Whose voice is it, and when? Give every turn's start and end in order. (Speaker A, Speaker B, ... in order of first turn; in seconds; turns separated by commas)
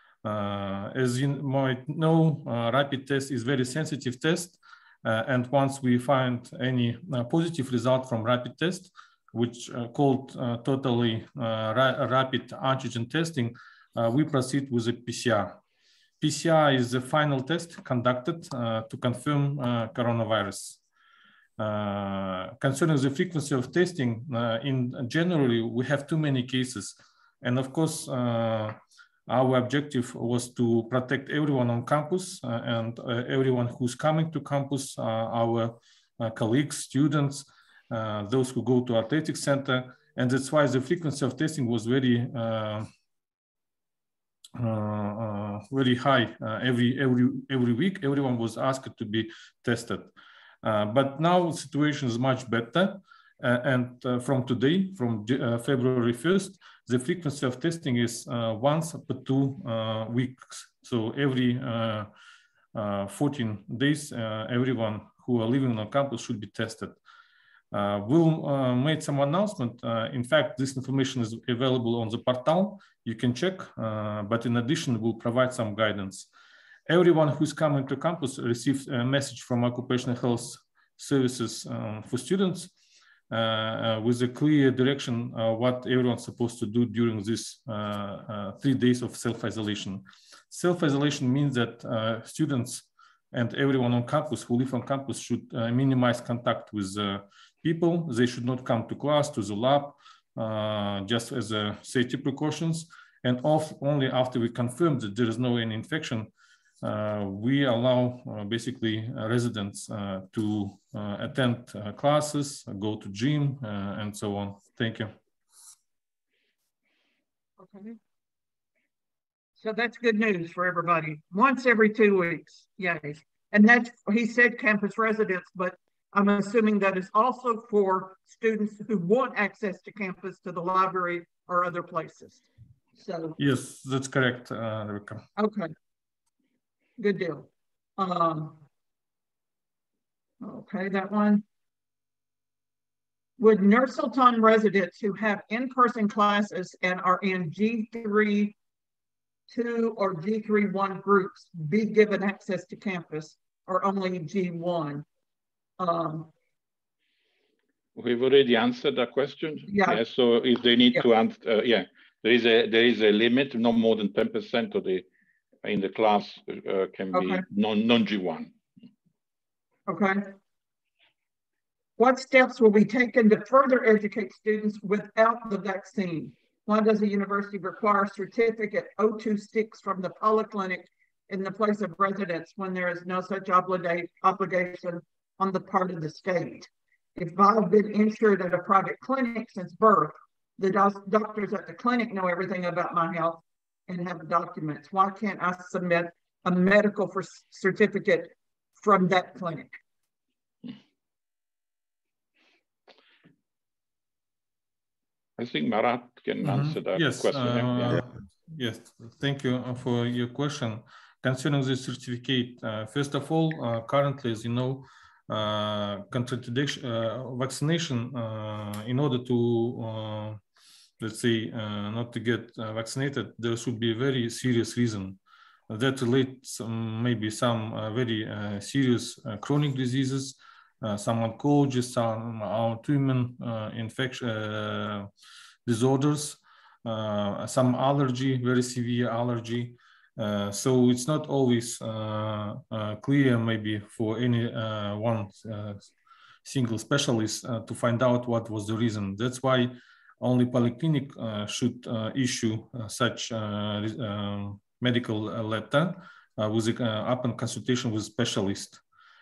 Speaker A: 0.2-15.6, Speaker A: 16.2-20.8, Speaker A: 21.6-42.9, Speaker A: 44.6-50.1, Speaker A: 50.6-62.1, Speaker A: 62.7-67.0, Speaker A: 67.7-76.3, Speaker A: 76.9-82.7, Speaker A: 83.3-106.3, Speaker A: 106.8-115.2, Speaker B: 117.6-118.0, Speaker B: 119.6-132.4, Speaker B: 133.0-133.4, Speaker A: 133.4-135.2, Speaker B: 135.4-135.7, Speaker B: 137.0-138.6, Speaker B: 140.4-141.4, Speaker B: 143.4-148.6, Speaker B: 149.5-155.1, Speaker B: 155.8-156.3, Speaker C: 158.0-165.1, Speaker B: 159.7-160.0, Speaker C: 165.6-168.5, Speaker B: 167.1-167.4, Speaker B: 169.9-170.3, Speaker B: 172.0-199.8, Speaker C: 205.4-208.0, Speaker A: 206.4-220.4, Speaker A: 221.0-225.2, Speaker A: 225.7-235.1, Speaker A: 235.7-245.9, Speaker A: 246.4-258.8